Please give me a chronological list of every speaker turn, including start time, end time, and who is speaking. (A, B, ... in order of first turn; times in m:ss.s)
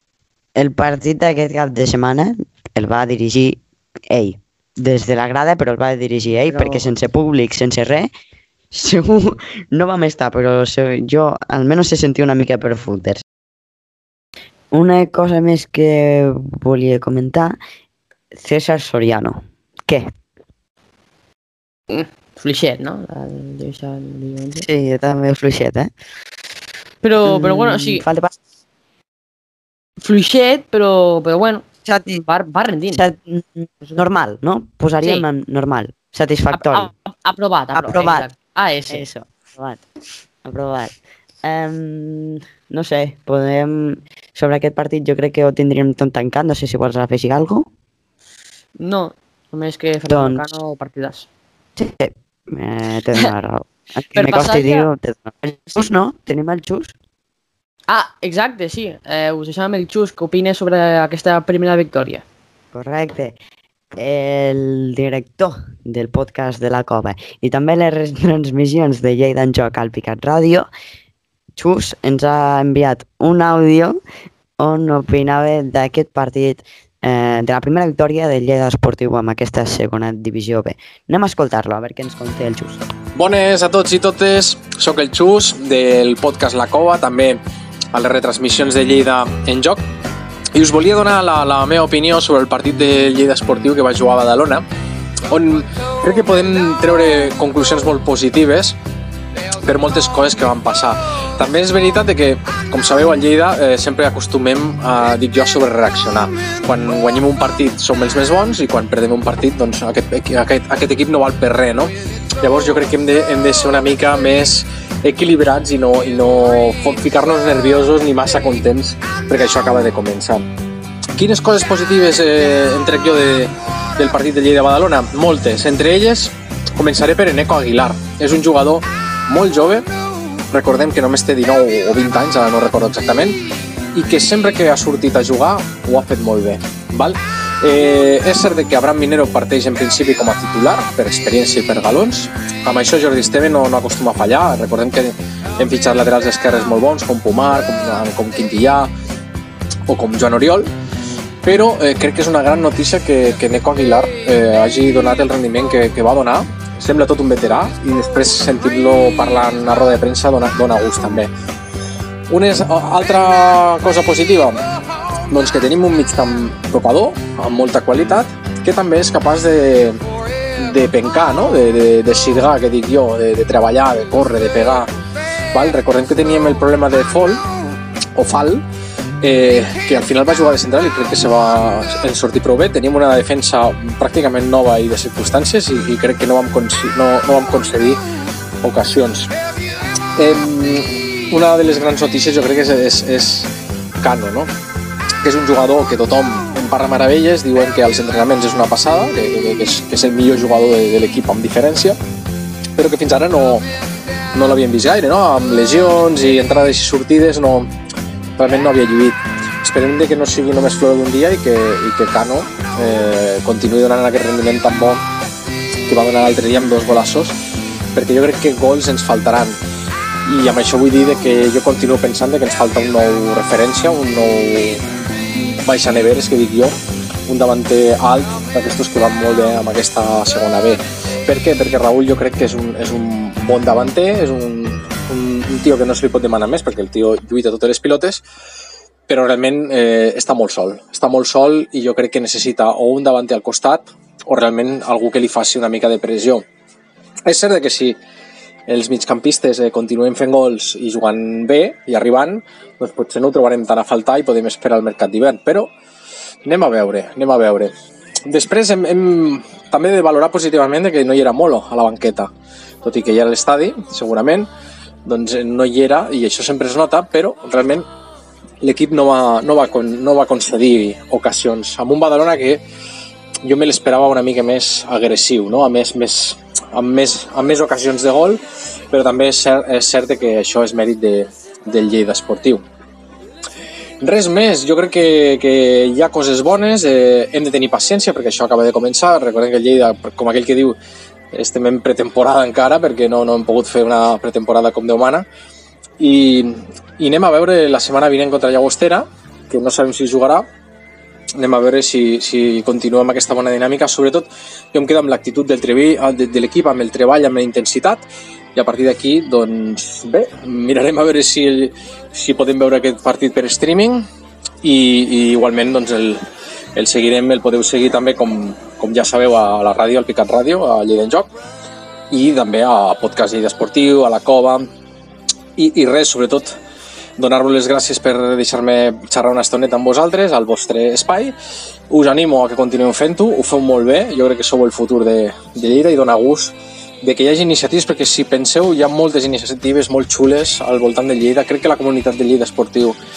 0:00.6-0:08.1 A
0:06.5-0:06.8 B
0:08.7-0:13.2 A
0:14.7-0:17.6 A
0:18.3-0:20.1 A
0:21.9-0:24.6 B
0:24.6-0:25.9 A
0:27.0-0:28.0 B
0:27.2-0:28.4 A
0:30.0-0:31.6 B
0:31.8-0:32.2 A
0:32.2-0:33.0 B
0:32.9-0:36.9 A
0:36.5-0:39.0 B
0:37.7-0:38.3 A
0:38.9-0:39.8 A
0:40.4-0:47.7 A
0:48.8-0:51.3 B
0:50.1-0:50.4 A
0:51.8-0:56.9 A
0:54.1-0:54.9 B
0:57.9-1:02.2 B
1:02.7-1:03.4 A
1:03.9-1:10.7 A
1:11.6-1:14.0 A
1:14.6-1:22.8 A
1:23.2-1:27.4 C
1:27.9-1:29.8 C
1:30.5-1:34.6 C
1:35.3-1:38.8 C
1:39.6-2:00.5 C
2:01.2-2:09.8 C
2:10.5-2:13.4 C
2:13.9-2:28.9 C
2:29.9-2:30.7 C
2:31.4-2:41.3 C
2:42.3-2:44.6 C
2:45.3-2:50.0 C
2:50.6-2:54.9 C
2:55.5-2:57.4 C
2:58.2-2:58.6 C
2:59.2-3:08.0 C
3:08.6-3:09.3 C
3:10.2-3:14.5 C
3:15.2-3:22.0 C
3:22.8-3:23.6 C
3:24.3-3:27.7 C
3:28.4-3:35.0 C
3:35.9-3:37.3 C
3:37.9-3:39.6 C
3:40.2-3:46.7 C
3:47.3-3:58.2 C
3:59.1-4:06.4 C
4:07.2-4:08.0 C
4:08.7-4:15.7 C
4:16.4-4:17.7 C
4:18.2-4:22.3 C
4:22.8-4:24.5 C
4:25.0-4:27.8 C
4:28.6-4:32.6 C
4:33.4-4:42.6 C
4:44.0-4:50.8 C
4:51.3-4:55.2 C
4:56.0-5:00.4 C
5:01.4-5:08.0 C
5:08.6-5:14.0 C
5:14.6-5:16.2 C
5:16.7-5:21.3 C
5:22.1-5:24.6 C
5:25.6-5:26.5 C
5:27.2-5:31.3 C
5:31.9-5:43.0 C